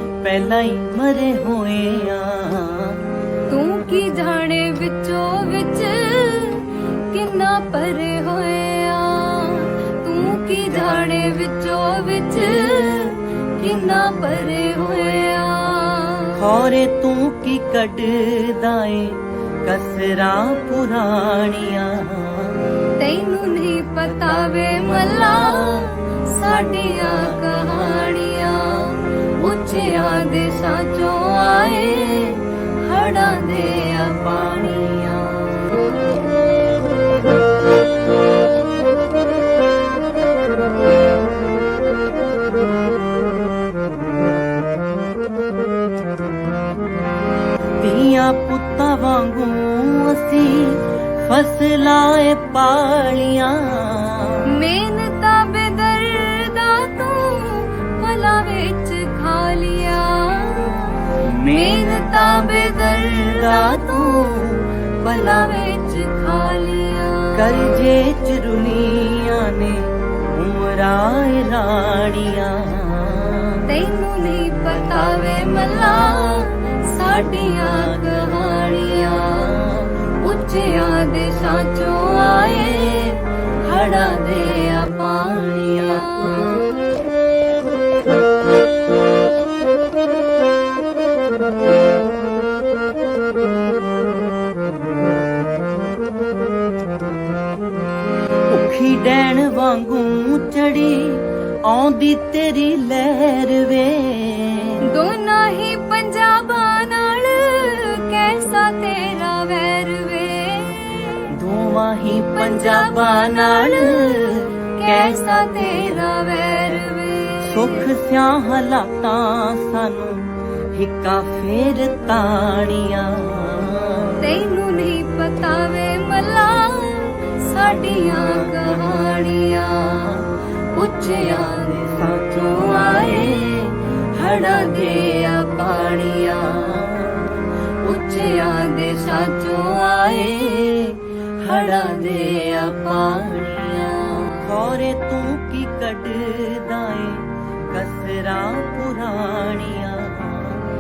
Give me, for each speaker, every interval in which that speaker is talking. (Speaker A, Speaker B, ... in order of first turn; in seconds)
Speaker A: 0.2-3.0, 16.4-22.6, 47.8-54.4, 61.2-62.0, 63.3-63.9, 67.3-73.6, 98.5-104.8, 111.3-114.3, 117.4-124.1, 144.4-150.6
Speaker B: 3.5-16.5, 23.0-35.9, 54.5-67.8, 73.7-86.8, 104.8-111.2, 112.2-117.9, 124.2-137.2, 137.8-144.6